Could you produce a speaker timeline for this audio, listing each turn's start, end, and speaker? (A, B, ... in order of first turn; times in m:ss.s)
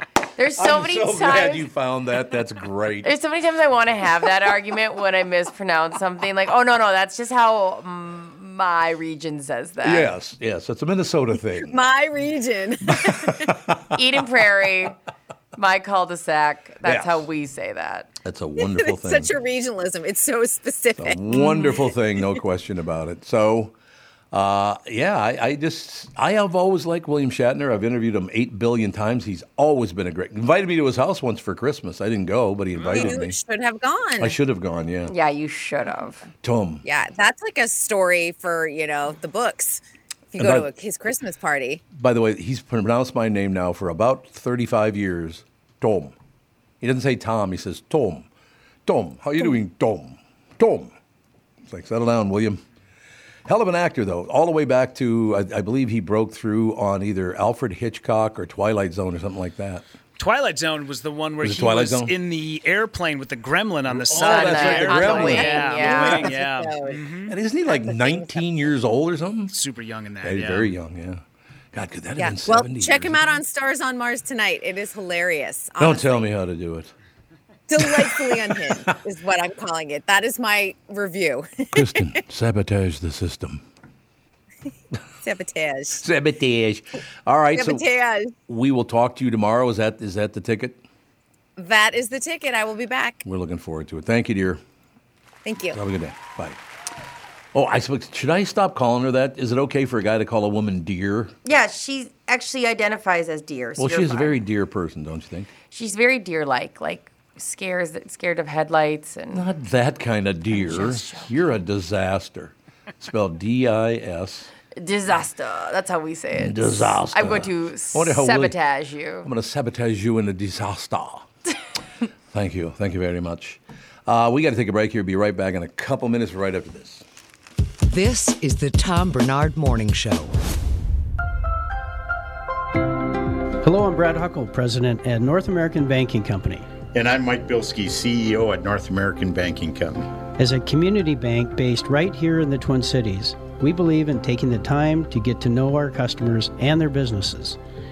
0:00.4-0:01.7 A
0:00.6-0:03.1 B
0:03.0-0:10.1 A
0:09.8-0:11.8 B
0:11.6-0:13.6 C
0:13.0-0:13.8 B
0:13.9-0:15.0 A
0:15.6-0:18.1 A
0:16.8-0:17.3 B
0:18.2-0:19.4 B
0:18.6-0:21.7 C
0:21.0-0:23.7 B
0:24.3-0:33.4 B
0:32.7-0:33.2 D
0:32.9-0:34.4 C
0:34.2-0:35.1 B
0:35.1-0:36.3 A
0:36.4-0:36.8 B
0:36.8-0:39.8 C
0:40.3-0:41.8 C
0:40.4-0:40.7 B
0:41.9-0:46.1 B
0:46.8-0:48.3 B
0:48.9-0:50.9 B
0:51.7-0:52.6 B
0:53.4-0:59.9 B
1:00.2-1:07.3 D
1:01.4-1:02.1 B
1:03.9-1:05.5 B
1:04.1-1:06.3 A
1:05.1-1:07.0 C
1:07.3-1:09.5 B
1:07.6-1:08.4 C
1:09.5-1:10.7 D
1:10.2-1:13.2 B
1:12.2-1:16.2 C
1:15.8-1:16.9 B
1:17.7-1:22.0 C
1:17.8-1:18.9 B
1:21.7-1:23.6 B
1:25.2-1:26.0 C
1:26.0-1:27.9 B
1:27.5-1:28.3 C
1:28.5-1:30.8 B
1:31.6-1:33.2 C
1:33.2-1:34.6 B
1:35.4-1:35.8 C
1:35.7-1:36.6 B
1:37.5-1:41.3 B
1:41.4-1:44.4 A
1:43.8-1:45.5 B
1:45.7-1:49.4 A
1:49.3-1:54.5 B
1:50.5-1:51.3 A
1:54.8-1:59.3 A
1:56.4-1:58.6 B
1:59.2-2:01.3 B
2:02.3-2:07.0 B
2:07.8-2:10.3 E
2:13.6-2:16.7 F
2:16.9-2:20.0 G
2:20.4-2:27.6 F